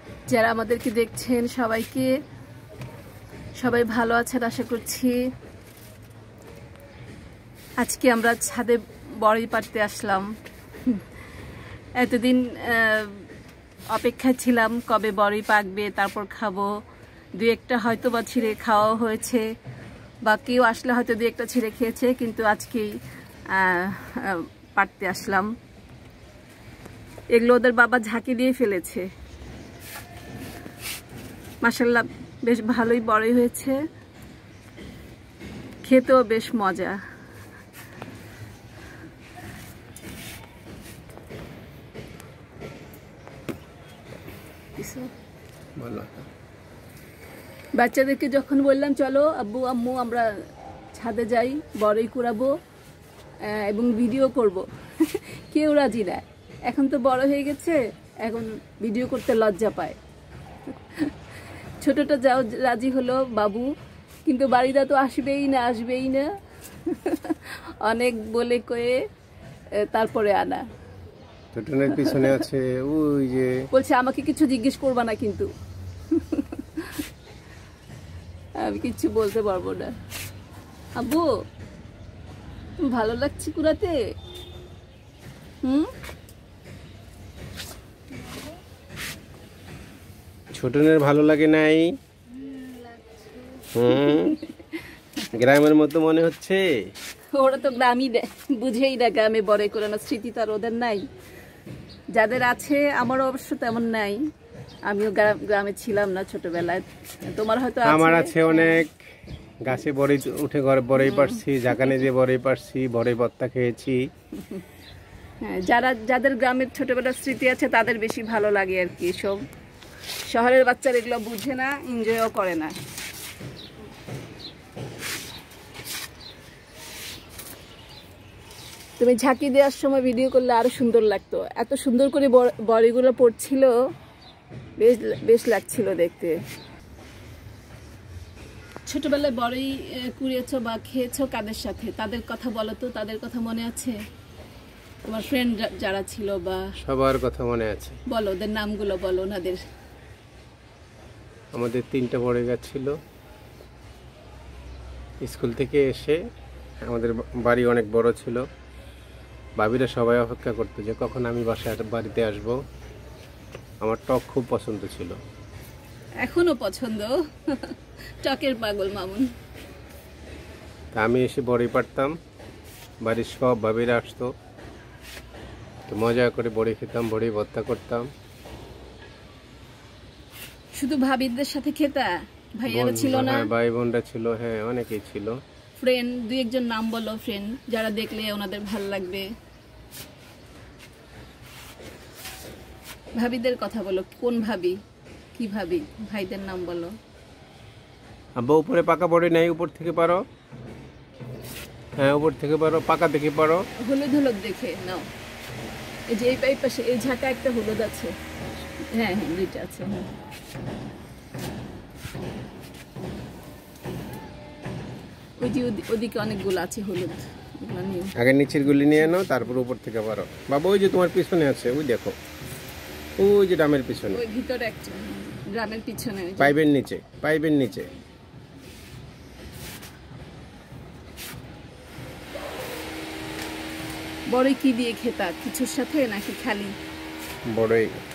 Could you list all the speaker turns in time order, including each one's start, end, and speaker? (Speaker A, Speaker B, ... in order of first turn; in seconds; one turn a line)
Speaker A: 0.3-2.1
Speaker A: 3.6-5.2
Speaker A: 7.8-10.3
Speaker A: 12.0-13.3
Speaker A: 13.9-16.7
Speaker A: 17.4-19.4
Speaker A: 20.2-23.0
Speaker A: 23.5-25.5
Speaker A: 27.3-29.1
Speaker A: 31.6-33.8
Speaker A: 35.8-37.0
Speaker A: 44.8-45.1
Speaker B: 45.8-46.2
Speaker A: 47.8-50.3
Speaker A: 50.9-52.5
Speaker A: 53.4-60.0
Speaker A: 60.9-61.1
Speaker A: 61.8-63.7
Speaker A: 64.3-66.3
Speaker A: 66.8-69.0
Speaker A: 69.9-70.6
Speaker B: 71.5-73.7
Speaker A: 71.9-72.4
Speaker A: 73.7-75.5
Speaker A: 76.1-77.0
Speaker A: 78.6-79.9
Speaker A: 81.0-81.3
Speaker A: 82.8-84.0
Speaker A: 85.6-85.9
Speaker B: 90.5-91.9
Speaker B: 93.7-94.4
Speaker A: 93.9-94.9
Speaker B: 95.3-96.7
Speaker A: 97.3-101.0
Speaker A: 102.1-104.2
Speaker A: 104.9-108.8
Speaker B: 107.8-109.0
Speaker B: 109.6-114.0
Speaker A: 111.0-112.0
Speaker A: 114.4-114.6
Speaker A: 115.4-119.4
Speaker A: 120.3-122.8
Speaker A: 129.0-133.8
Speaker A: 134.8-136.4
Speaker A: 138.9-144.0
Speaker A: 145.1-146.6
Speaker B: 146.8-148.0
Speaker A: 148.1-149.6
Speaker B: 151.5-153.0
Speaker B: 155.2-156.2
Speaker B: 156.9-158.4
Speaker B: 159.6-162.6
Speaker B: 163.8-165.2
Speaker A: 166.2-169.3
Speaker B: 170.9-172.1
Speaker B: 173.0-174.3
Speaker B: 175.9-178.1
Speaker A: 180.7-183.5
Speaker B: 182.7-185.4
Speaker A: 185.8-189.3
Speaker A: 193.2-194.8
Speaker A: 195.3-196.9
Speaker B: 198.4-200.2
Speaker B: 202.0-203.6
Speaker A: 203.8-205.1
Speaker A: 206.1-208.2
Speaker A: 208.8-210.1
Speaker A: 215.4-218.1
Speaker B: 218.2-222.2
Speaker B: 223.2-224.2
Speaker A: 224.1-226.5
Speaker B: 226.4-227.9
Speaker A: 234.3-236.7
Speaker B: 237.5-238.0